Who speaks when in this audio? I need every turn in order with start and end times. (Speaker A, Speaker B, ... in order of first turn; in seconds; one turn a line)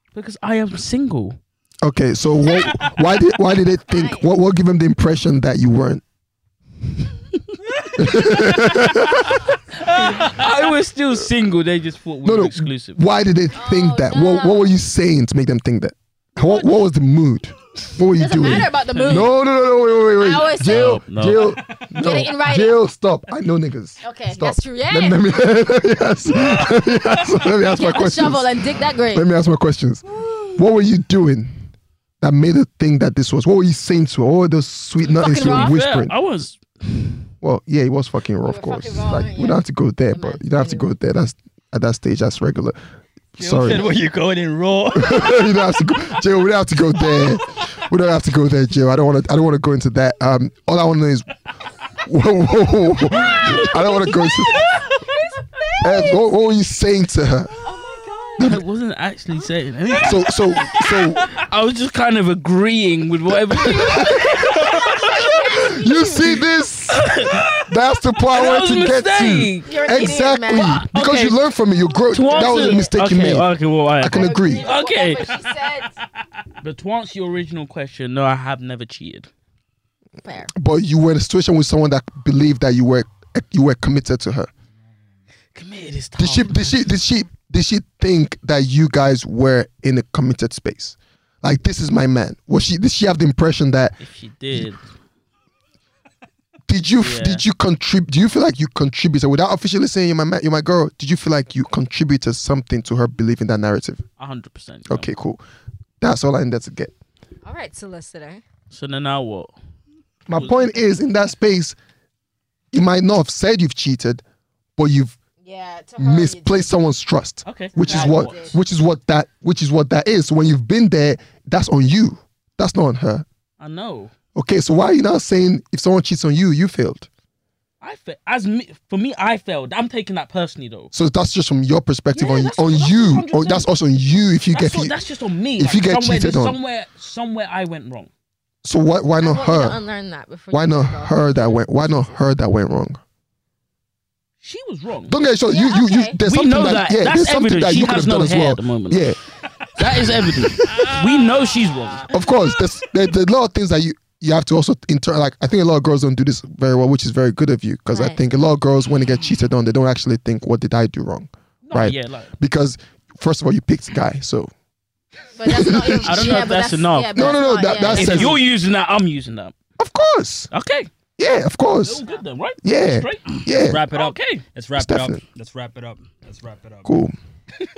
Speaker A: 0.1-1.4
Speaker B: 1.8-6.0
Speaker C: 3.9-4.2
Speaker A: 7.8-13.0
Speaker B: 8.0-9.4
Speaker D: 10.0-10.5
Speaker B: 12.2-30.0
Speaker C: 13.5-14.7
Speaker C: 18.1-19.3
Speaker A: 18.9-19.2
Speaker C: 20.2-21.0
Speaker A: 20.6-21.6
Speaker C: 22.0-22.8
Speaker C: 24.0-25.2
Speaker A: 26.3-27.3
Speaker C: 27.7-29.2
Speaker B: 30.6-31.6
Speaker B: 32.2-36.1
Speaker C: 35.0-35.8
Speaker A: 35.3-37.3
Speaker B: 37.4-42.8
Speaker C: 38.4-40.9
Speaker B: 43.4-43.9
Speaker D: 43.4-45.6
Speaker B: 44.9-51.3
Speaker B: 52.0-54.7
Speaker C: 53.5-56.2
Speaker B: 55.8-57.5
Speaker C: 57.6-58.5
Speaker A: 58.4-65.4
Speaker B: 60.0-61.3
Speaker B: 63.5-74.7
Speaker C: 63.6-66.4
Speaker A: 66.9-69.7
Speaker C: 69.6-70.8
Speaker A: 70.6-71.4
Speaker A: 72.1-75.5
Speaker C: 72.3-72.9
Speaker C: 74.1-76.0
Speaker A: 76.6-79.3
Speaker C: 80.2-80.5
Speaker B: 80.5-84.5
Speaker A: 85.5-86.8
Speaker B: 86.2-94.0
Speaker A: 94.0-94.8
Speaker B: 96.7-104.0
Speaker A: 97.0-97.4
Speaker A: 104.2-105.1
Speaker B: 104.9-105.4
Speaker B: 106.0-106.9
Speaker C: 107.4-108.4
Speaker A: 108.7-109.5
Speaker B: 110.3-111.8
Speaker A: 110.3-110.8
Speaker B: 112.7-114.2
Speaker B: 114.8-115.2
Speaker C: 115.4-116.7
Speaker B: 116.0-123.2
Speaker A: 117.5-118.5
Speaker C: 117.8-118.5
Speaker A: 123.6-124.1
Speaker B: 124.3-127.1
Speaker A: 127.8-130.9
Speaker B: 130.9-134.9
Speaker A: 132.1-133.7
Speaker A: 134.5-138.1
Speaker B: 135.6-136.6
Speaker B: 138.6-139.8
Speaker C: 139.2-142.2
Speaker B: 140.5-143.0
Speaker A: 144.4-145.1
Speaker B: 145.1-149.2
Speaker C: 145.5-146.2
Speaker A: 146.2-149.1
Speaker A: 149.8-152.1
Speaker B: 149.8-150.2
Speaker D: 150.5-152.6
Speaker B: 152.1-164.5
Speaker C: 157.9-158.2
Speaker A: 161.6-162.3
Speaker C: 165.3-168.3
Speaker B: 165.4-166.4
Speaker A: 166.0-169.5
Speaker B: 167.1-168.4
Speaker B: 169.8-170.5
Speaker A: 170.5-170.9
Speaker B: 171.2-172.0
Speaker A: 171.8-174.4
Speaker B: 172.6-173.8
Speaker D: 173.5-177.0
Speaker B: 174.8-175.2
Speaker B: 176.8-177.1